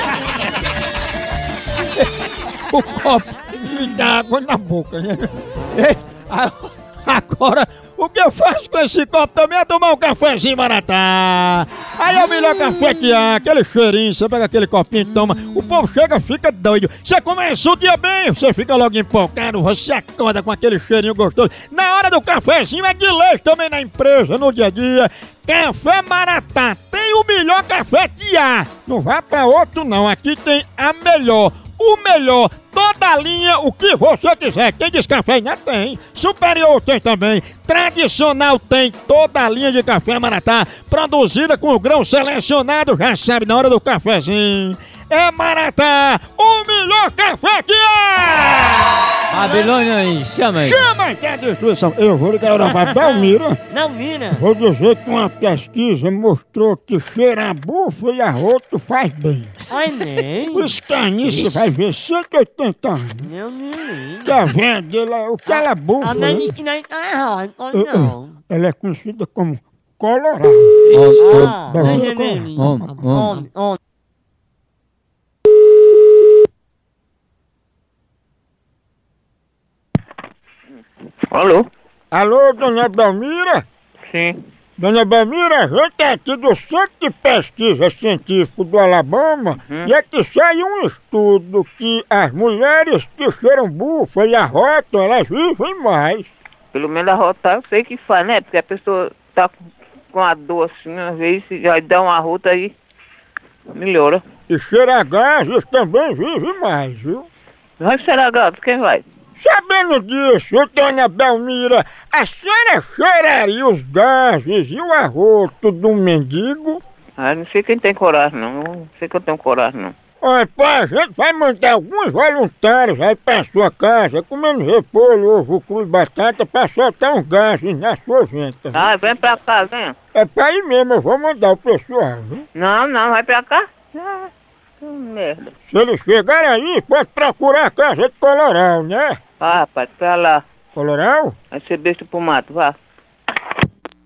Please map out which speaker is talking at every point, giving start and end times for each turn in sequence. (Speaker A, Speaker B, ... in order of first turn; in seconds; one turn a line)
Speaker A: 2.7-6.5
Speaker A: 7.0-49.0
Speaker B: 49.3-50.8
Speaker C: 49.3-49.7
Speaker A: 50.5-53.6
Speaker C: 52.6-54.4
Speaker A: 54.3-59.5
Speaker C: 59.7-61.7
Speaker A: 60.5-63.3
Speaker C: 63.2-64.4
Speaker A: 64.2-66.5
Speaker C: 65.5-68.3
Speaker A: 67.7-73.3
Speaker B: 70.9-71.6
Speaker C: 71.2-73.8
Speaker B: 72.5-73.4
Speaker D: 81.3-81.7
Speaker A: 82.1-83.6
Speaker D: 84.1-84.4
Speaker A: 84.8-96.3
Speaker D: 96.7-99.5
Speaker D: 100.1-102.7
Speaker D: 103.7-104.2
Speaker A: 104.5-107.3
Speaker D: 107.8-109.0
Speaker A: 109.4-116.8
Speaker D: 117.2-119.9
Speaker A: 120.2-128.9
Speaker D: 128.7-129.9
Speaker A: 130.1-132.4
Speaker D: 132.6-134.3
Speaker D: 134.8-135.5
Speaker A: 135.7-139.2
Speaker D: 139.4-140.4
Speaker A: 140.7-141.3
Speaker D: 141.5-142.8